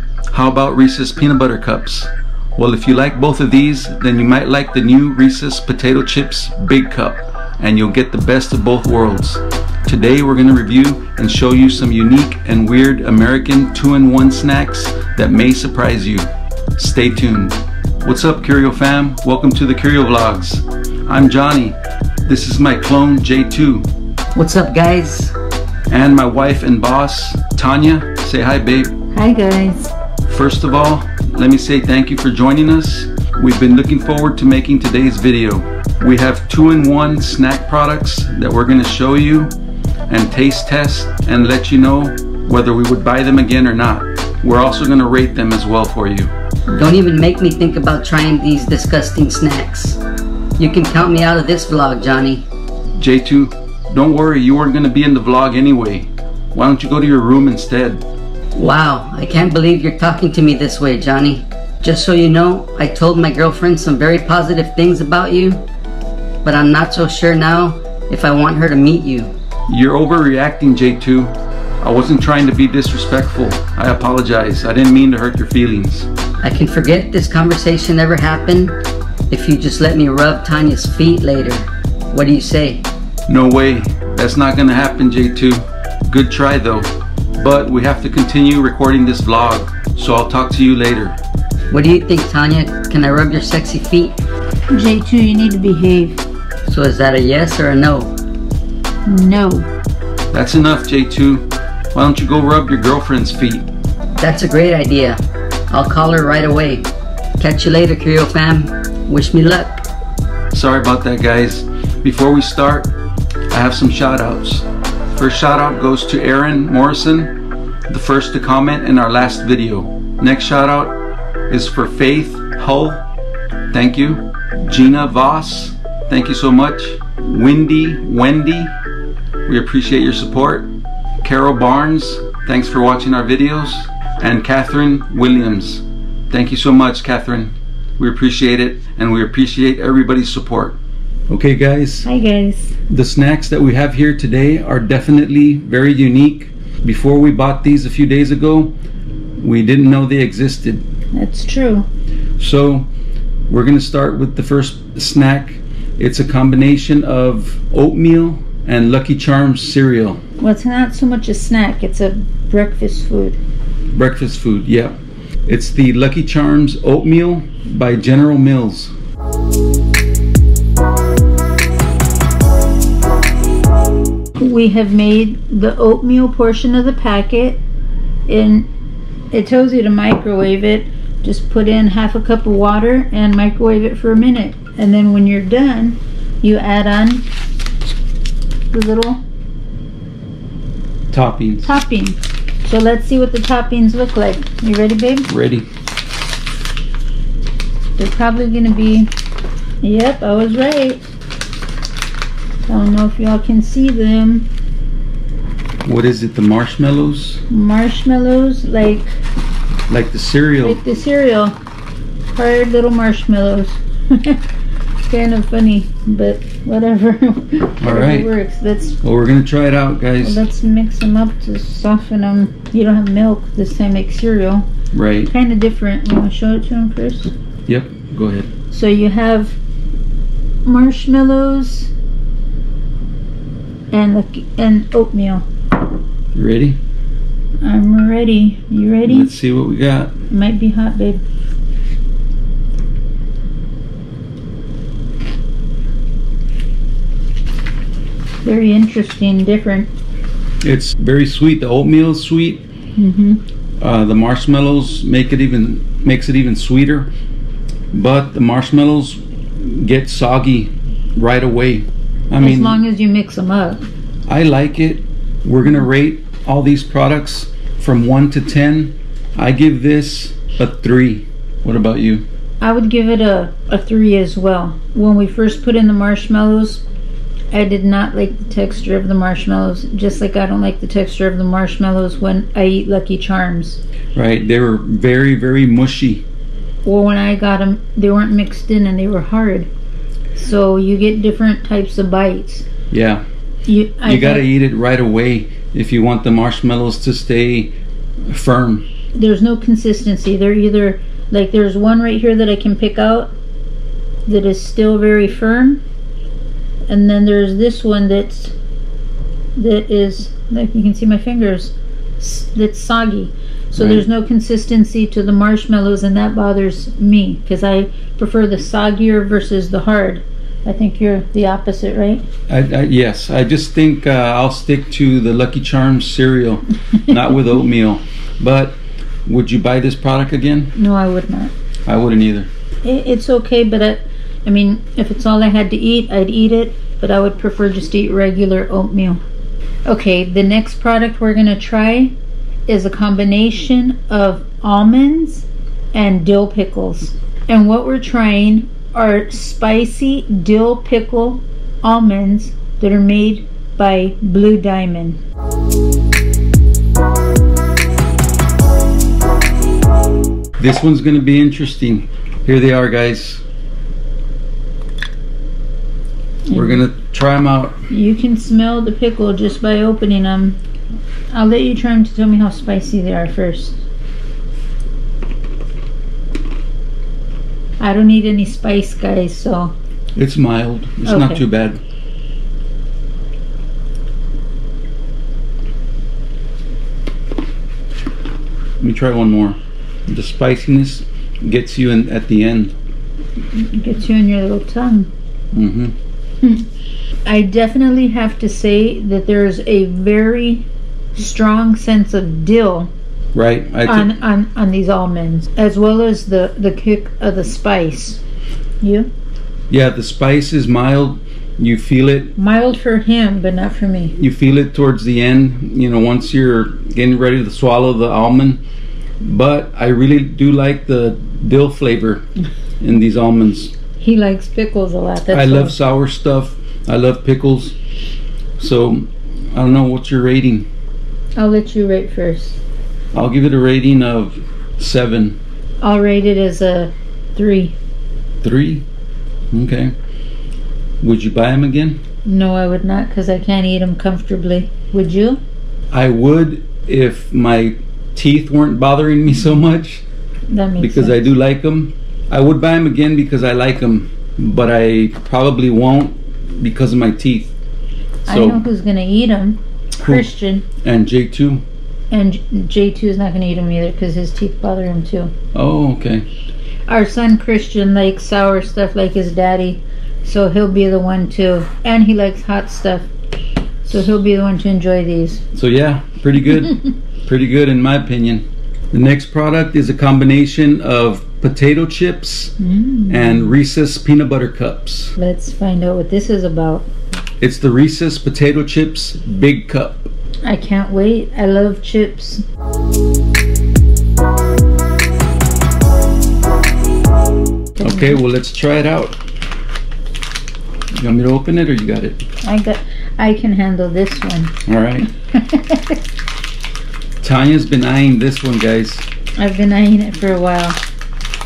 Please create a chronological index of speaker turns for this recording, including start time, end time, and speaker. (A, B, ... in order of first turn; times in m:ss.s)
0:00.3-0:23.9 A
0:24.3-0:25.3 B
0:25.9-0:28.9 A
0:29.1-0:29.9 C
0:30.3-0:39.5 A
0:40.1-0:46.3 A
0:46.7-0:50.0 B
0:50.6-0:52.4 B
0:53.0-0:58.0 A
0:58.5-1:05.6 B
1:06.4-1:09.3 B
1:09.7-1:16.1 A
1:16.4-1:18.8 B
1:19.3-1:22.8 B
1:23.3-1:31.2 A
1:31.7-1:34.1 B
1:34.7-1:36.2 C
1:36.6-1:38.1 B
1:39.0-1:39.7 C
1:40.3-1:43.6 A
1:44.2-1:45.2 B
1:45.7-1:49.8 B
1:50.5-1:52.9 A
1:53.5-1:57.3 A
1:57.9-2:00.9 A
2:01.5-2:03.0 A
2:03.7-2:08.8 A
2:09.5-2:10.7 A
2:11.2-2:20.8 A
2:21.3-2:22.1 A
2:22.0-2:22.8 C
2:22.9-2:28.7 A
2:29.4-2:30.8 A
2:31.1-2:31.9 C
2:32.4-2:32.9 A
2:33.5-2:40.2 A
2:40.4-2:43.4 C
2:43.9-2:45.0 A
2:45.5-2:48.9 A
2:54.4-2:57.6 C
2:58.3-2:58.7 C
2:59.3-3:07.3 C
3:08.7-3:09.2 C
3:11.1-3:11.7 A
3:11.6-3:15.3 C
3:15.3-3:15.7 A
3:18.0-3:19.1 C
3:19.8-3:21.0 C
3:22.7-3:24.5 C
3:25.8-3:27.4 A
3:27.5-3:29.2 C
3:29.9-3:30.8 A
3:30.6-3:31.6 C
3:32.3-3:34.4 C
3:35.1-3:39.0 C
3:37.8-3:38.3 A
3:39.0-3:40.4 A
3:40.2-3:44.7 C
3:44.9-3:45.3 A
3:45.3-3:47.3 C
3:47.7-3:48.5 A
3:48.7-3:49.6 C
3:50.6-3:51.9 C
3:53.9-3:55.4 C
3:56.3-3:56.8 A
3:57.6-3:59.3 C
3:59.1-4:00.1 A
4:00.3-4:01.2 C
4:08.4-4:09.9 C
4:10.6-4:12.6 A
4:13.0-4:13.4 C
4:13.8-4:17.1 A
4:17.9-4:22.8 A
4:22.4-4:23.8 C
4:24.3-4:32.2 A
4:32.6-4:36.8 C
4:37.5-4:43.8 C
4:44.1-4:46.2 A
4:46.8-4:49.7 C
4:50.3-4:52.6 C
4:52.9-4:53.2 A
4:53.6-4:54.5 C
4:54.0-4:57.7 A
4:58.3-4:58.9 A
4:59.1-5:03.3 C
5:04.2-5:05.8 C
5:06.9-5:08.5 C
5:09.6-5:22.2 C
5:13.8-5:14.0 A
5:22.5-5:30.7 A
5:30.7-5:31.5 C
5:31.9-5:32.5 A
5:32.8-5:39.2 C
5:39.8-5:42.1 C
5:42.7-5:55.2 C
6:00.6-6:03.4 A
6:06.4-6:06.8 C
6:06.5-6:07.8 A
6:07.9-6:10.6 C
6:11.3-6:13.8 C
6:17.8-6:19.7 C
6:20.2-6:21.8 A
6:21.0-6:21.4 C
6:28.8-6:32.7 A
6:33.5-6:35.1 C
6:35.5-6:35.9 A
6:37.2-6:42.9 C
6:43.3-6:44.1 A
6:43.8-6:48.2 C
6:48.8-6:49.1 C
6:49.7-6:52.3 A
6:52.4-6:54.1 C
6:54.2-6:58.6 A
6:59.2-7:02.2 A
7:02.8-7:03.7 A
7:04.0-7:05.8 C
7:05.3-7:07.8 A
7:08.6-7:10.7 A
7:11.4-7:12.6 C
7:13.1-7:15.4 A
7:15.8-7:17.8 C
7:18.4-7:18.8 A
7:19.5-7:19.9 A
7:21.0-7:22.0 A
7:22.2-7:25.4 C
7:25.9-7:30.0 A
7:30.5-7:31.3 C
7:30.8-7:37.5 A
7:38.2-7:40.6 C
7:38.3-7:38.6 A
7:40.0-7:41.6 A
7:42.1-7:45.3 C
7:45.5-7:46.2 A
7:46.9-7:53.1 C
7:53.8-7:55.4 C
7:55.5-8:02.5 A
8:02.6-8:03.5 C
8:03.1-8:05.2 A
8:05.2-8:06.9 C
8:07.4-8:10.1 A
8:10.4-8:12.4 C
8:17.8-8:18.2 C
8:17.8-8:19.2 A
8:20.9-8:22.2 A
8:22.4-8:24.5 C
8:24.6-8:25.1 A
8:25.1-8:26.0 C
8:27.2-8:29.0 A
8:29.4-8:30.8 C